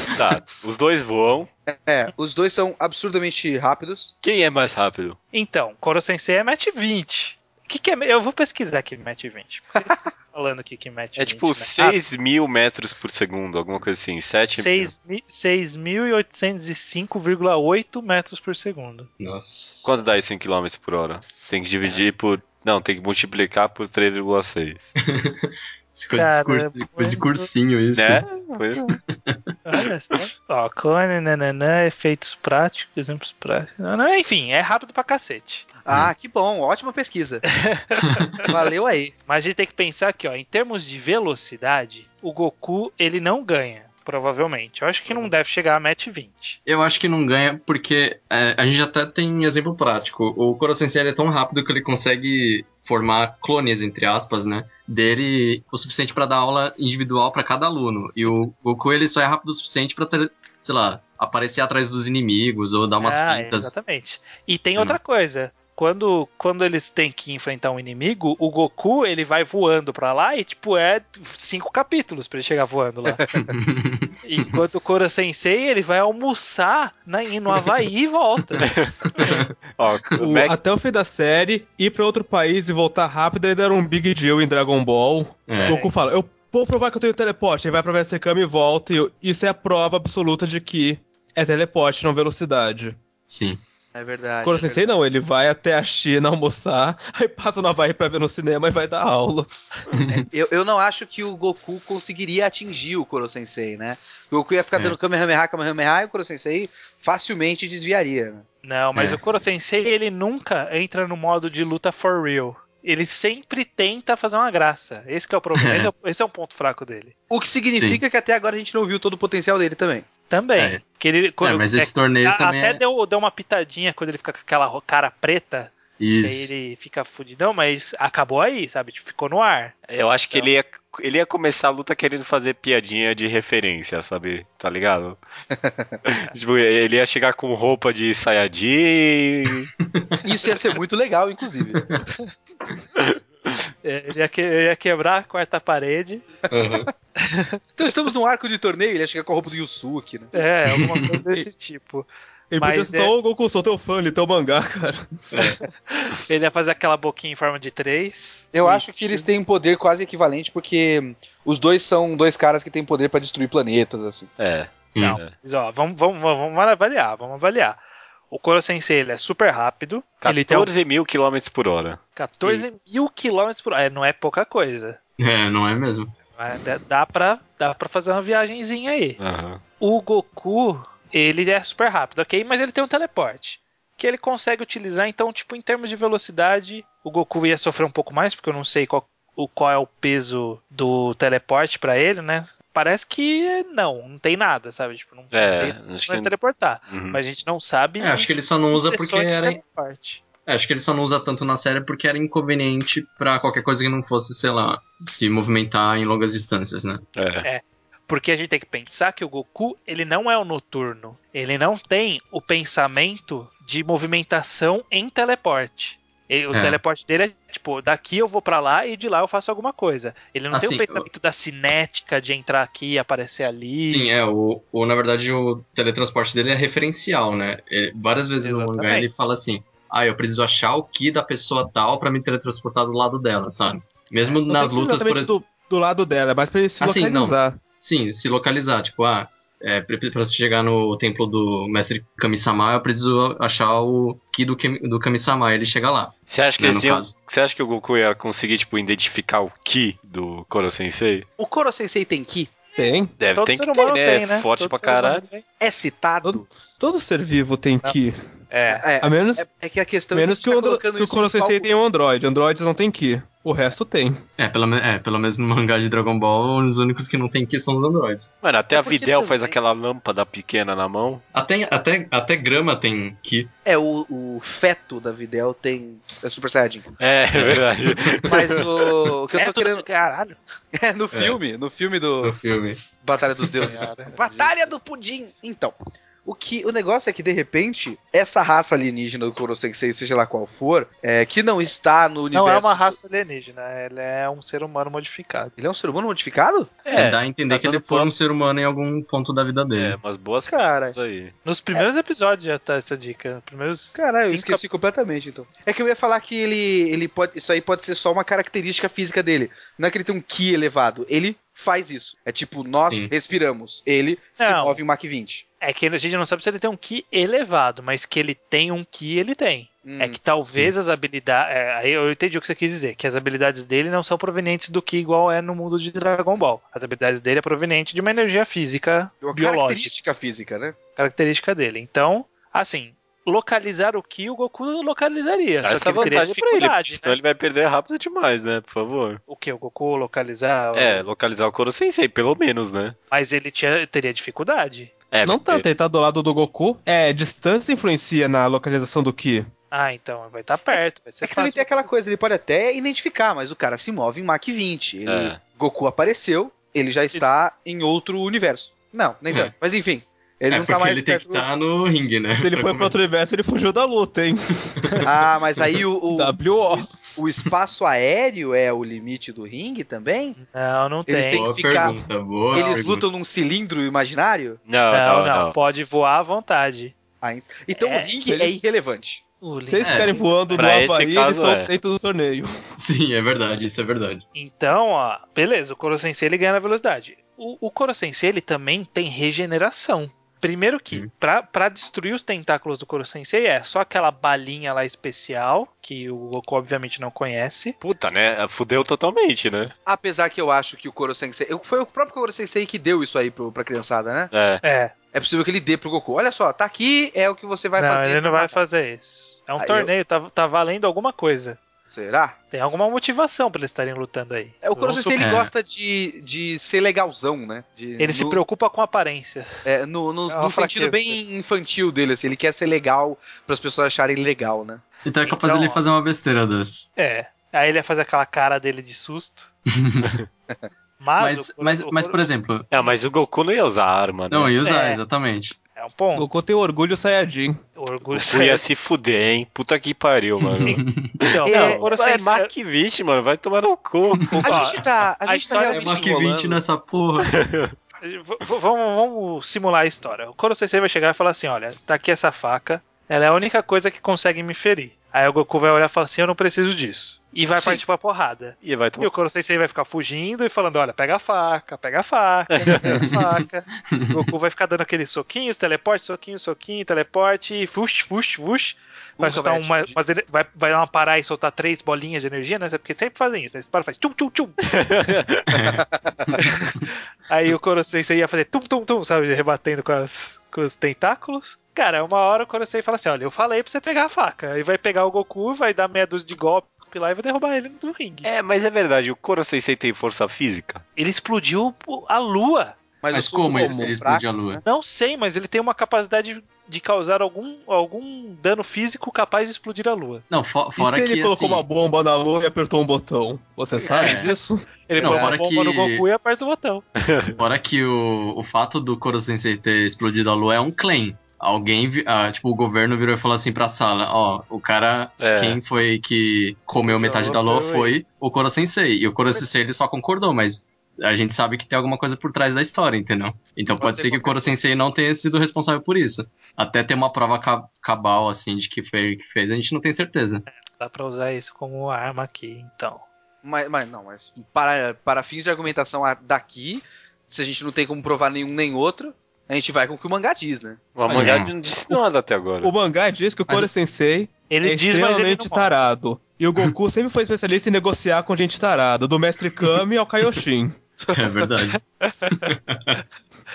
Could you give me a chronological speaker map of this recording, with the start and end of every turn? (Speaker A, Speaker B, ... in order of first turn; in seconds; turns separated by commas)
Speaker A: 0.1-1.5, Speaker B: 1.7-4.1, Speaker A: 4.2-5.2, Speaker C: 5.3-12.0, Speaker A: 11.2-14.9, Speaker C: 14.5-19.1, Speaker D: 19.2-19.9, Speaker A: 19.8-24.9, Speaker C: 21.8-22.5, Speaker D: 25.0-28.3, Speaker C: 26.1-27.5, Speaker A: 27.9-28.9, Speaker C: 29.6-35.6, Speaker B: 35.8-37.4, Speaker C: 37.6-38.5, Speaker D: 38.0-38.5, Speaker B: 38.5-39.1, Speaker C: 39.3-46.6, Speaker D: 46.6-63.7, Speaker C: 63.0-73.3, Speaker B: 73.2-73.5, Speaker D: 73.5-74.1, Speaker C: 74.2-78.7, Speaker D: 79.2-79.5, Speaker A: 79.8-80.5, Speaker E: 80.2-93.0, Speaker D: 85.5-85.8, Speaker C: 85.6-85.9, Speaker D: 93.3-93.6, Speaker B: 93.9-94.9, Speaker E: 94.4-99.5, Speaker D: 99.9-100.2, Speaker B: 100.1-108.4, Speaker C: 108.6-117.1, Speaker D: 108.9-109.2, Speaker D: 115.5-115.9, Speaker B: 117.3-120.0, Speaker D: 117.7-118.0, Speaker C: 120.3-129.7, Speaker D: 120.6-120.8, Speaker D: 121.4-122.8, Speaker D: 126.0-126.5, Speaker A: 129.9-135.2, Speaker B: 135.6-135.9, Speaker A: 136.0-139.7, Speaker D: 139.8-140.2, Speaker B: 140.2-141.8, Speaker C: 143.8-146.2, Speaker D: 146.5-146.9, Speaker C: 147.2-147.6, Speaker B: 147.8-150.3, Speaker C: 150.3-153.1, Speaker E: 152.5-155.1, Speaker D: 155.3-155.6, Speaker C: 155.9-159.2, Speaker B: 158.5-164.3, Speaker A: 164.4-165.3, Speaker C: 165.0-167.8, Speaker C: 168.3-170.7, Speaker A: 170.2-172.7, Speaker C: 172.2-175.0, Speaker D: 175.2-176.1, Speaker C: 176.3-179.2, Speaker A: 179.2-179.6, Speaker C: 179.8-200.2, Speaker A: 195.3-196.3, Speaker A: 196.9-197.2, Speaker D: 198.0-199.6, Speaker D: 200.4-207.0, Speaker A: 207.1-207.4, Speaker C: 207.4-224.1, Speaker D: 216.5-216.8, Speaker D: 220.5-221.1, Speaker D: 223.8-235.3, Speaker C: 228.4-229.1, Speaker E: 234.4-237.6, Speaker D: 236.8-247.1, Speaker A: 246.3-251.2, Speaker B: 251.4-252.5, Speaker E: 252.8-253.1, Speaker A: 253.2-255.2, Speaker C: 253.3-255.4, Speaker B: 255.6-256.4, Speaker E: 256.2-258.2, Speaker C: 258.5-258.8, Speaker B: 258.7-261.7, Speaker E: 259.0-259.4, Speaker E: 260.1-264.2, Speaker D: 264.4-268.3, Speaker A: 268.4-271.2, Speaker B: 268.7-269.5, Speaker D: 271.3-273.5, Speaker B: 273.6-276.9, Speaker A: 277.0-279.1, Speaker D: 277.4-278.3, Speaker B: 278.2-279.8, Speaker C: 279.3-280.4, Speaker B: 280.7-282.4, Speaker D: 281.1-281.4, Speaker D: 282.2-282.8, Speaker B: 282.9-292.9, Speaker C: 283.5-284.7, Speaker C: 292.3-295.5, Speaker B: 295.6-296.7, Speaker A: 296.8-298.1, Speaker D: 296.9-300.0, Speaker A: 299.8-301.3, Speaker B: 300.5-300.9, Speaker C: 301.4-304.6, Speaker B: 303.9-315.4, Speaker C: 314.4-314.8, Speaker C: 315.6-329.9, Speaker B: 319.8-320.2, Speaker B: 329.2-330.7, Speaker C: 331.0-337.1, Speaker A: 335.6-339.2, Speaker C: 339.3-341.0, Speaker A: 340.7-342.9, Speaker C: 343.1-344.9, Speaker A: 345.1-345.6, Speaker E: 345.2-349.5, Speaker C: 349.7-351.9, Speaker B: 350.7-361.5, Speaker A: 355.1-355.4, Speaker D: 360.5-362.9, Speaker E: 362.3-364.8, Speaker B: 365.0-370.4, Speaker E: 366.1-367.0, Speaker C: 370.4-371.6, Speaker B: 371.1-372.0, Speaker D: 371.3-373.1, Speaker C: 372.5-372.8, Speaker B: 372.5-374.6, Speaker A: 374.7-375.5, Speaker C: 374.9-376.9, Speaker B: 377.2-379.2, Speaker C: 377.7-378.1, Speaker E: 378.2-378.5, Speaker C: 379.4-380.7, Speaker E: 379.7-382.5, Speaker D: 379.8-380.1, Speaker A: 380.5-381.7, Speaker D: 382.8-384.2, Speaker C: 384.3-397.8, Speaker A: 397.8-399.7, Speaker B: 399.9-404.3, Speaker A: 404.3-404.6, Speaker C: 404.6-404.9, Speaker B: 405.1-408.6, Speaker C: 407.8-411.6, Speaker B: 409.6-409.9, Speaker B: 411.9-412.4, Speaker C: 412.5-415.2, Speaker B: 414.6-418.4, Speaker D: 415.2-415.5, Speaker C: 418.0-419.6, Speaker B: 419.6-424.9, Speaker C: 420.3-421.2, Speaker D: 425.0-426.9, Speaker C: 425.2-425.8, Speaker C: 427.0-429.5, Speaker D: 429.7-430.1, Speaker C: 431.0-432.2, Speaker D: 431.2-433.2, Speaker A: 432.7-434.5, Speaker D: 434.3-435.6, Speaker C: 434.6-435.0, Speaker C: 435.8-436.3, Speaker E: 436.1-437.6, Speaker C: 437.8-438.6, Speaker A: 438.1-440.8, Speaker D: 440.5-441.3, Speaker C: 440.6-442.5, Speaker B: 441.4-441.8, Speaker A: 441.4-444.8, Speaker C: 444.4-446.0, Speaker B: 444.4-446.6, Speaker D: 445.7-447.3, Speaker A: 447.3-447.7, Speaker C: 448.0-475.1, Speaker A: 457.6-457.8, Speaker A: 458.6-459.1, Speaker A: 462.5-462.8, Speaker D: 462.9-463.2, Speaker D: 463.9-464.2, Speaker B: 469.2-469.9, Speaker A: 474.7-475.4, Speaker D: 475.5-476.4, Speaker C: 476.4-488.3, Speaker A: 488.2-490.8, Speaker C: 491.0-492.7, Speaker B: 493.0-494.6, Speaker D: 493.1-494.6, Speaker C: 494.6-500.2, Speaker D: 500.3-501.6, Speaker E: 500.8-504.7, Speaker D: 503.9-504.3, Speaker C: 504.0-504.3, Speaker C: 504.9-506.8, Speaker D: 505.0-506.1, Speaker A: 507.0-507.4, Speaker D: 507.4-530.4, Speaker A: 515.2-515.6, Speaker C: 516.9-517.9, Speaker B: 523.8-524.6, Speaker C: 530.5-533.0, Speaker B: 533.4-540.8, Speaker A: 541.0-542.7, Speaker D: 541.1-541.5, Speaker E: 542.6-550.8, Speaker C: 544.5-545.7, Speaker D: 551.1-553.0